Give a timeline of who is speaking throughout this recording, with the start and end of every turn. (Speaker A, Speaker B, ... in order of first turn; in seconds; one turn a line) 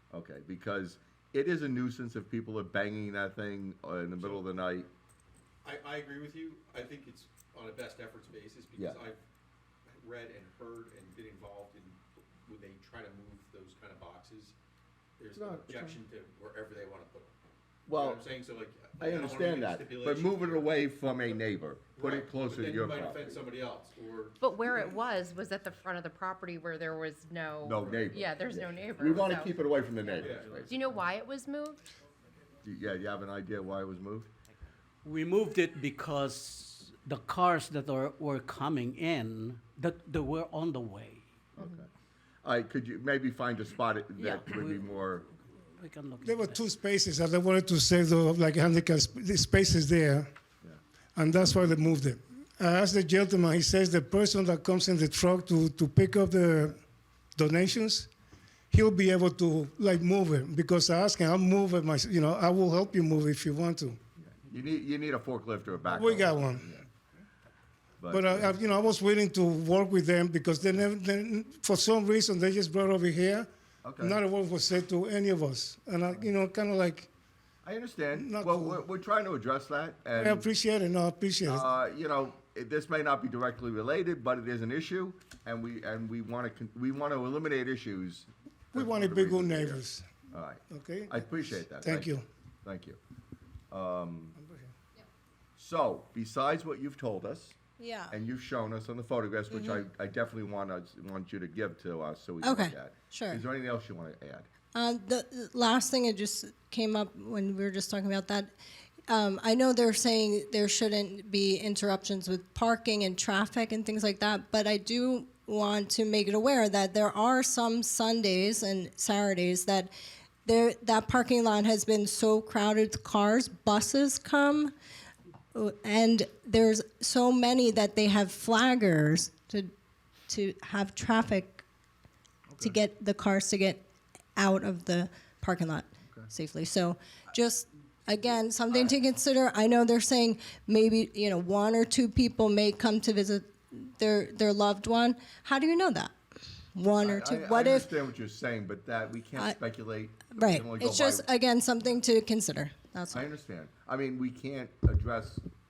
Speaker A: 0.1-4.9
Speaker B: 4.2-4.4
Speaker B: 5.6-9.2
Speaker B: 9.9-14.6
Speaker B: 15.2-17.4
Speaker A: 15.3-16.0
Speaker A: 17.9-18.2
Speaker B: 17.9-21.4
Speaker A: 19.0-23.4
Speaker B: 21.9-24.9
Speaker C: 24.4-31.8
Speaker A: 27.6-30.8
Speaker B: 30.2-30.7
Speaker A: 32.6-34.3
Speaker D: 35.0-41.7
Speaker A: 41.6-41.9
Speaker A: 42.4-45.3
Speaker D: 44.2-46.7
Speaker E: 46.2-50.3
Speaker E: 51.2-56.8
Speaker E: 57.4-58.1
Speaker E: 58.7-64.0
Speaker A: 64.3-66.9
Speaker E: 65.9-66.7
Speaker A: 68.0-68.7
Speaker E: 68.1-77.1
Speaker A: 73.8-74.2
Speaker A: 77.6-80.5
Speaker E: 78.1-78.8
Speaker E: 80.2-81.7
Speaker A: 81.5-92.1
Speaker E: 88.7-90.1
Speaker E: 90.7-91.2
Speaker E: 91.8-92.2
Speaker A: 92.6-93.0
Speaker A: 93.7-94.4
Speaker E: 94.4-94.7
Speaker A: 95.6-97.6
Speaker F: 97.8-98.1
Speaker A: 98.1-104.5
Speaker F: 99.5-99.8
Speaker F: 102.4-103.4
Speaker F: 104.8-108.5
Speaker F: 109.1-119.9
Speaker F: 120.5-124.7
Speaker F: 125.5-129.7
Speaker F: 130.3-131.6
Speaker A: 132.5-132.8
Speaker F: 132.6-133.8
Speaker F: 134.4-146.1
Speaker A: 138.7-138.9
Speaker F: 146.8-147.9
Speaker A: 147.0-151.2
Speaker F: 150.3-153.3
Speaker A: 153.1-155.4